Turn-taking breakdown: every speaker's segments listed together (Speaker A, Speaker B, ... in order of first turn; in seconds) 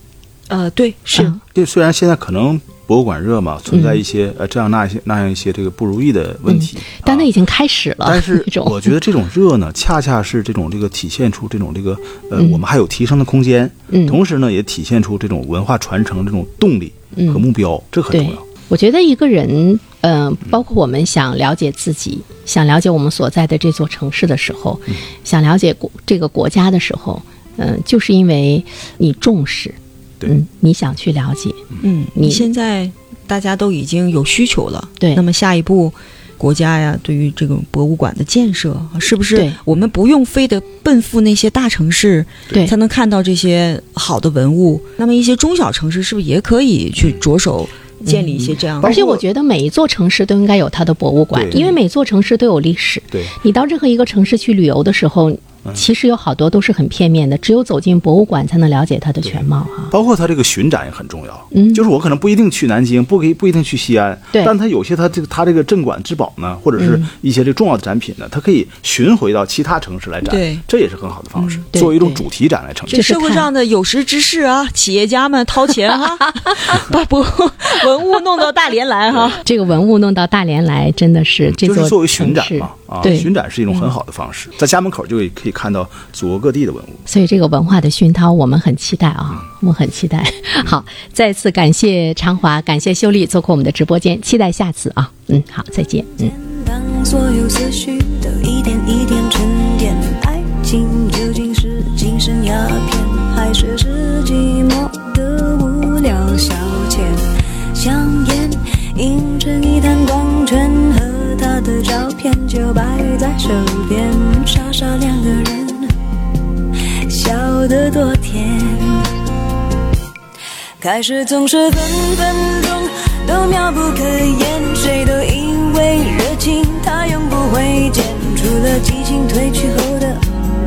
Speaker A: 0.5-1.3, 31.8-49.0, 70.2-70.6, 71.4-71.6, 72.9-79.4
Speaker B: 1.3-7.3, 8.1-18.4, 48.8-49.2, 51.3-51.7, 59.2-73.1, 81.6-87.0
Speaker C: 3.7-4.0, 6.5-8.9, 12.4-12.6, 13.9-14.2, 17.1-17.4, 18.1-31.6, 32.1-32.5, 48.0-59.9, 61.5-61.8, 66.8-67.1, 71.7-72.2, 72.9-73.5, 79.4-83.3, 87.1-96.3
Speaker D: 96.2-115.9, 117.1-119.1, 120.8-130.2